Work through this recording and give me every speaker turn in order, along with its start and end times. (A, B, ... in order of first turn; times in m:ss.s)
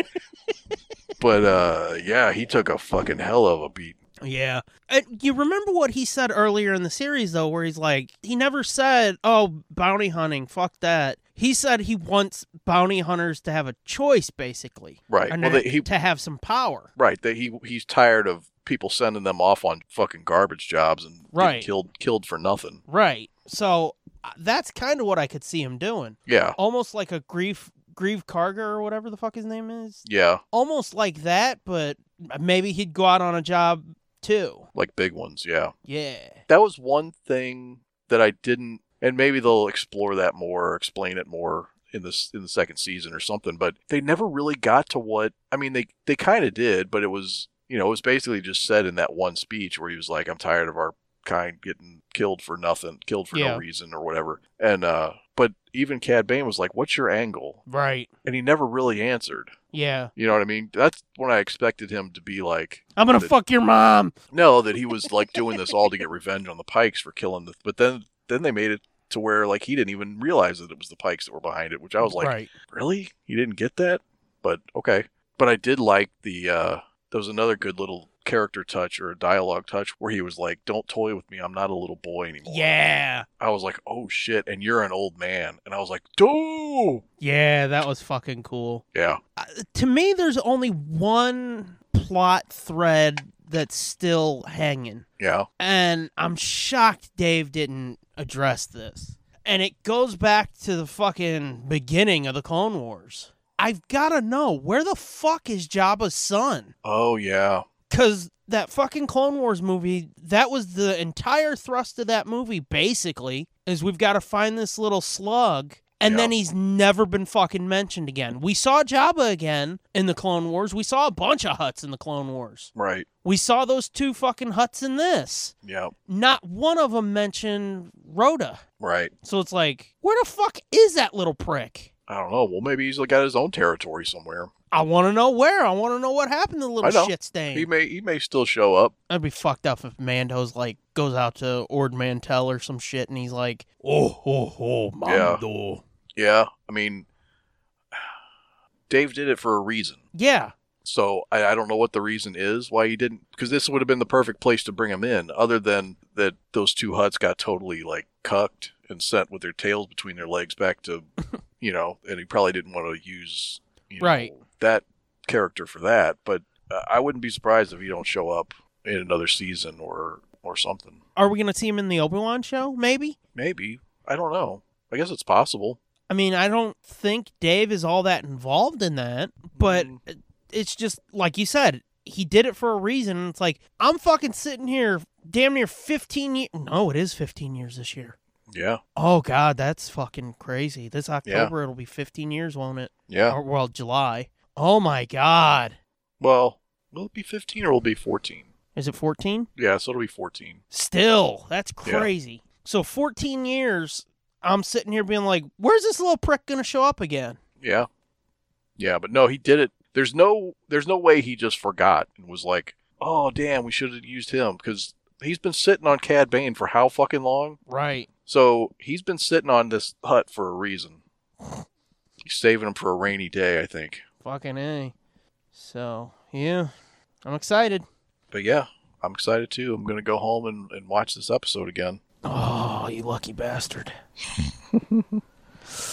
0:01.2-0:04.0 A
0:04.2-0:16.9 B
0:15.1-0:15.9 A
0:17.0-0:22.8 A
0:21.3-0:21.7 B
0:22.9-0:34.6 B
0:26.2-0:26.6 A
0:30.0-0:30.4 A
0:34.7-0:35.7 A
0:35.8-0:36.4 B
0:36.5-0:57.6 A
0:53.3-0:53.6 B
0:57.7-0:58.1 B
0:58.2-0:59.5 A
0:59.7-1:00.1 B
1:00.2-1:03.3 A
1:03.0-1:04.1 B
1:04.3-1:22.7 A
1:12.0-1:12.5 B
1:22.4-1:23.3 B
1:23.4-1:27.0 A
1:27.2-1:28.8 B
1:28.9-1:29.2 A
1:29.4-1:35.0 B
1:35.2-1:35.5 A
1:35.6-1:46.7 B
1:46.8-1:47.6 A
1:47.9-2:02.7 B
1:56.0-1:56.3 A
2:02.7-2:03.1 A
2:03.2-2:05.5 B
2:05.6-2:05.9 A
2:06.1-2:08.6 B
2:08.8-2:09.1 A
2:09.2-2:11.9 B
2:12.1-2:14.5 A
2:14.7-2:17.7 B
2:16.8-2:18.9 A
2:19.1-2:25.8 B
2:25.0-2:25.4 A
2:26.1-2:27.0 A
2:28.9-2:30.0 A
2:30.1-2:30.5 B
2:30.8-2:41.1 A
2:41.6-2:51.0 A
2:44.0-2:44.3 B
2:51.2-2:53.2 B
2:53.3-2:55.8 A
2:56.1-3:08.2 B
2:59.5-3:00.0 A
3:08.5-3:08.8 A
3:09.0-3:15.8 B
3:11.2-3:11.5 A
3:13.1-3:13.4 A
3:16.2-3:18.5 A
3:18.8-3:19.5 B
3:19.6-3:20.6 A
3:20.7-3:27.4 B
3:21.8-3:22.1 A
3:27.6-3:27.9 A
3:28.8-3:37.6 A
3:37.7-3:38.1 B
3:38.2-3:41.0 A
3:42.2-3:44.0 A
3:44.2-3:44.9 B
3:45.5-3:46.7 B
3:47.2-3:47.8 B
3:48.3-3:52.0 A
3:52.2-3:53.9 B
3:54.7-3:55.0 A